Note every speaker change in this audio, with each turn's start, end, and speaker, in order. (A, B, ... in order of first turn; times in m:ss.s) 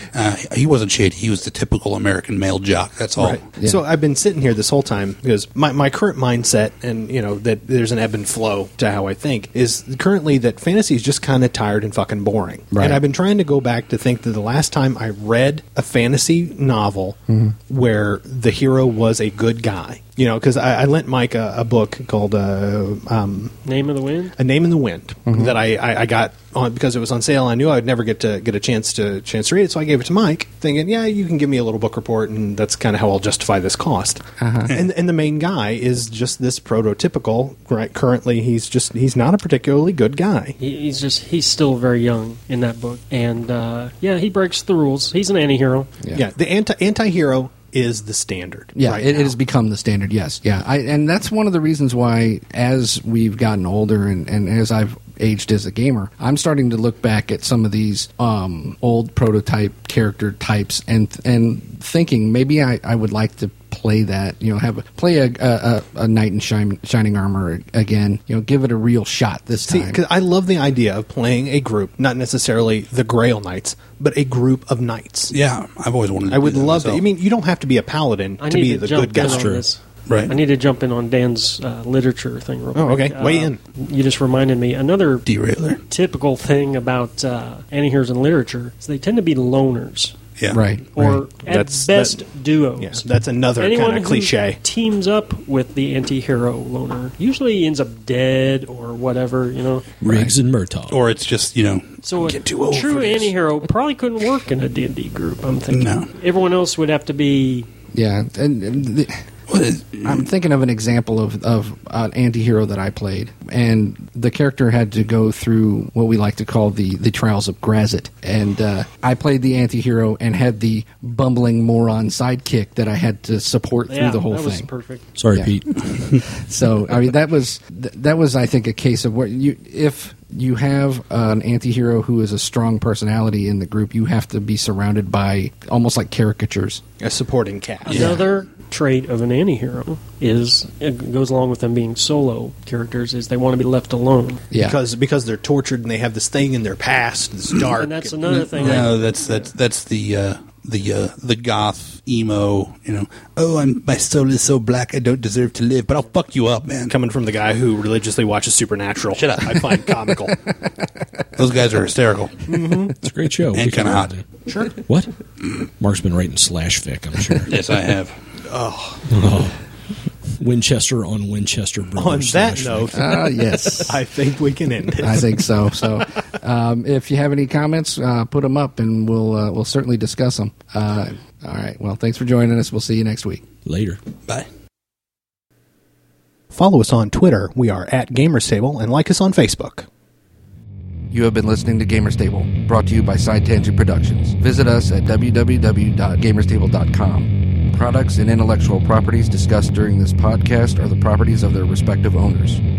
0:00.1-0:03.4 A
0:03.2-0:23.6 B
0:03.6-0:03.8 C
0:12.7-0:13.0 C
0:17.3-0:17.5 C
0:23.6-0:24.4 D
0:24.4-0:40.6 B
0:25.3-0:25.6 C
0:34.4-0:34.7 C
0:40.6-0:45.9 D
0:46.1-0:49.3 B
0:48.7-1:10.0 C
1:09.6-1:15.3 B
1:15.3-1:17.0 A
1:16.3-1:19.5 B
1:18.4-1:25.2 D
1:19.2-1:19.6 E
1:20.1-1:20.4 A
1:22.7-1:23.6 B
1:25.2-1:25.8 A
1:25.9-1:30.2 D
1:30.5-1:31.2 C
1:31.0-1:33.0 D
1:31.4-1:32.2 B
1:32.8-1:34.6 B
1:33.6-1:39.9 D
1:40.0-1:41.0 E
1:40.0-1:40.3 C
1:40.9-1:43.3 A
1:42.0-1:47.7 D
1:45.7-1:46.1 A
1:47.9-1:49.2 C
1:49.5-1:50.2 A
1:50.0-2:04.7 C
2:03.9-2:05.0 D
2:05.2-2:06.2 E
2:06.2-2:16.8 C
2:17.0-2:18.2 B
2:17.8-2:24.4 D
2:24.5-2:24.8 C
2:24.6-2:28.9 B
2:27.8-2:29.0 D
2:28.3-2:37.0 A
2:36.9-2:40.4 B
2:39.1-2:39.9 A
2:40.3-2:40.7 C
2:41.3-2:42.5 A
2:42.5-2:42.9 B
2:43.0-2:45.1 E
2:43.5-2:44.1 A
2:44.4-2:44.7 B
2:45.8-2:47.6 E
2:47.5-2:48.2 A
2:48.4-2:49.1 B
2:49.1-2:49.6 E
2:50.3-2:53.1 E
2:52.0-2:55.5 B
2:52.9-2:54.1 C
2:54.9-3:03.4 C
3:03.6-3:04.0 E
3:06.5-3:09.9 B
3:11.1-3:22.6 C